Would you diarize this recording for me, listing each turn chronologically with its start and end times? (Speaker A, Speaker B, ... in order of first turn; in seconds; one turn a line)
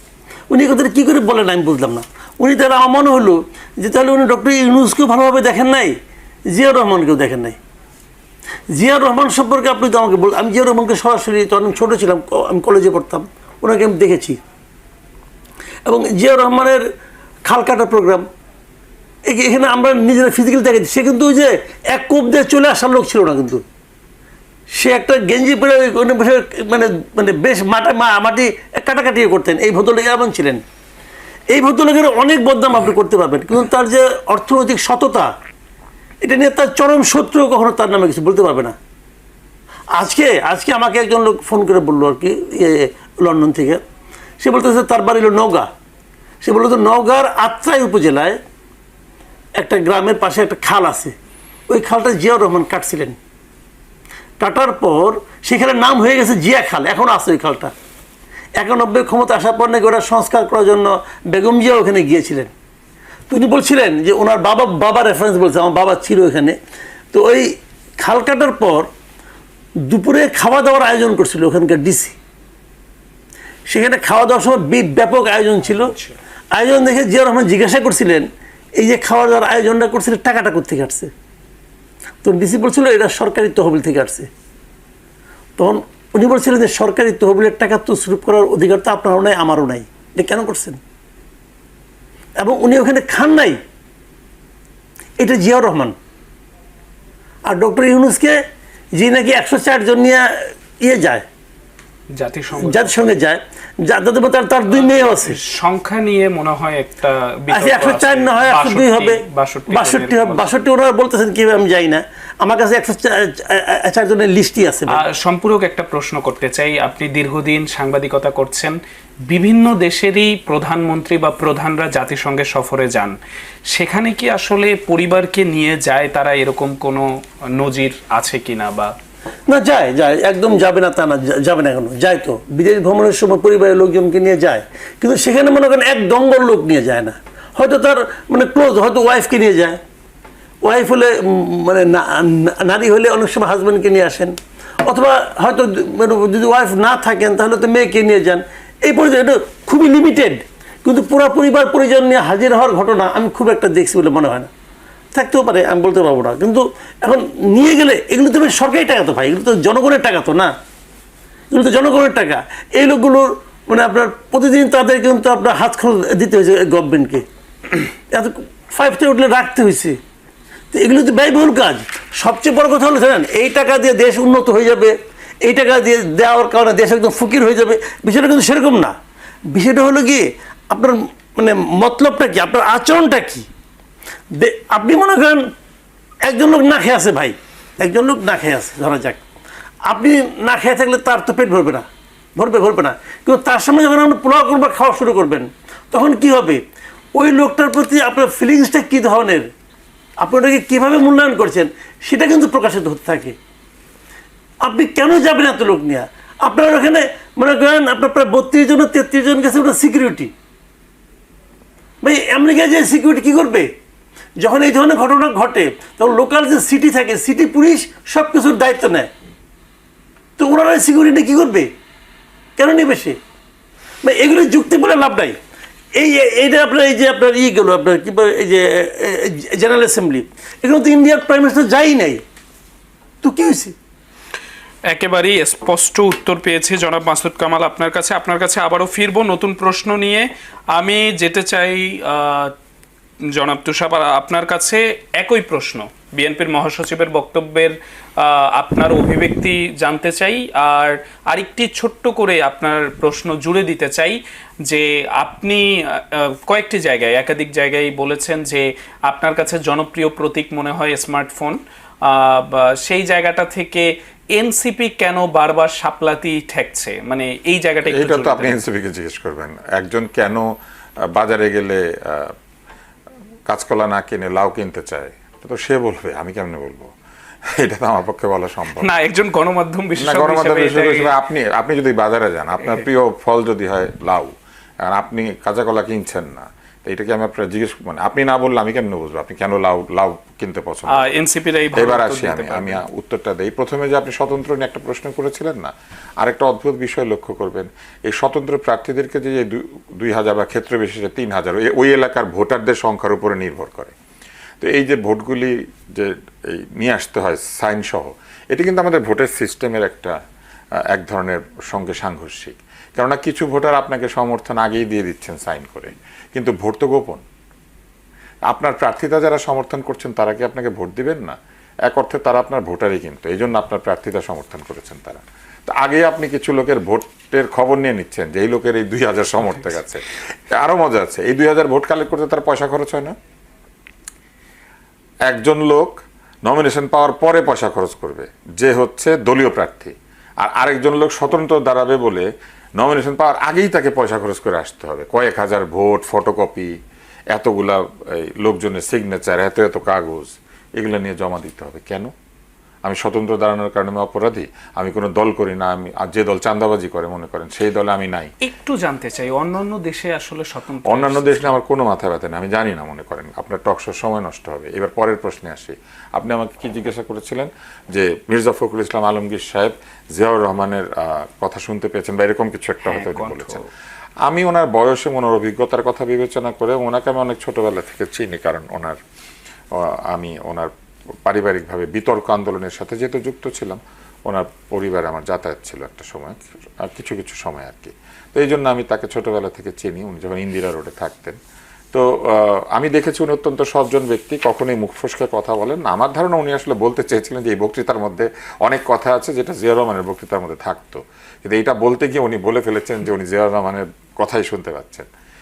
Speaker A: 0.5-5.9
Speaker A: 6.5-7.6
Speaker A: 8.7-14.4
Speaker A: 15.8-16.8
Speaker A: 17.5-18.2
Speaker A: 19.3-23.6
Speaker A: 24.8-30.6
Speaker A: 31.5-35.3
Speaker A: 36.2-38.7
Speaker A: 39.9-43.8
Speaker A: 44.4-45.7
Speaker A: 46.4-48.4
Speaker A: 49.6-51.1
Speaker A: 51.7-53.2
Speaker A: 54.4-57.7
Speaker A: 58.6-62.5
Speaker A: 63.3-66.5
Speaker A: 67.1-68.9
Speaker A: 69.9-72.2
Speaker A: 73.7-75.9
Speaker B: 75.7-76.1
Speaker A: 76.5-78.3
Speaker A: 78.8-81.1
Speaker A: 82.2-84.3
Speaker A: 85.6-90.8
Speaker A: 92.4-93.6
Speaker A: 95.2-95.9
Speaker A: 97.5-98.4
Speaker A: 99.0-101.2
Speaker B: 102.2-103.1
Speaker A: 102.6-105.4
Speaker B: 104.7-110.5
Speaker A: 107.5-115.0
Speaker B: 114.9-118.8
Speaker B: 119.3-123.2
Speaker B: 123.7-128.9
Speaker A: 129.5-139.8
Speaker A: 140.6-144.3
Speaker A: 144.8-154.5
Speaker A: 155.1-160.5
Speaker A: 161.5-167.2
Speaker A: 168.1-170.0
Speaker A: 170.7-178.9
Speaker A: 179.5-183.4
Speaker A: 184.3-185.4
Speaker A: 186.2-189.2
Speaker A: 189.9-191.8
Speaker A: 192.4-196.6
Speaker A: 197.1-199.5
Speaker A: 200.2-203.3
Speaker A: 204.6-210.3
Speaker A: 212.0-213.7
Speaker A: 214.4-219.1
Speaker A: 220.4-221.7
Speaker A: 222.6-223.2
Speaker A: 224.0-225.4
Speaker A: 226.0-232.2
Speaker A: 233.2-233.7
Speaker B: 234.9-242.5
Speaker B: 243.3-268.6
Speaker C: 267.8-270.5
Speaker C: 271.1-272.3
Speaker C: 273.5-276.9
Speaker C: 277.5-278.9
Speaker B: 278.8-281.1
Speaker C: 280.0-284.3
Speaker C: 284.8-291.1
Speaker B: 290.9-292.8
Speaker C: 291.8-303.9
Speaker C: 304.6-310.1
Speaker C: 310.9-317.2
Speaker C: 318.5-321.3
Speaker C: 321.9-333.1
Speaker C: 335.3-346.7
Speaker C: 347.3-352.1
Speaker C: 352.8-358.3
Speaker B: 358.4-361.6
Speaker C: 360.8-373.6
Speaker B: 372.8-373.6
Speaker C: 374.3-379.0
Speaker C: 379.7-380.7
Speaker C: 381.2-391.4
Speaker C: 391.9-405.1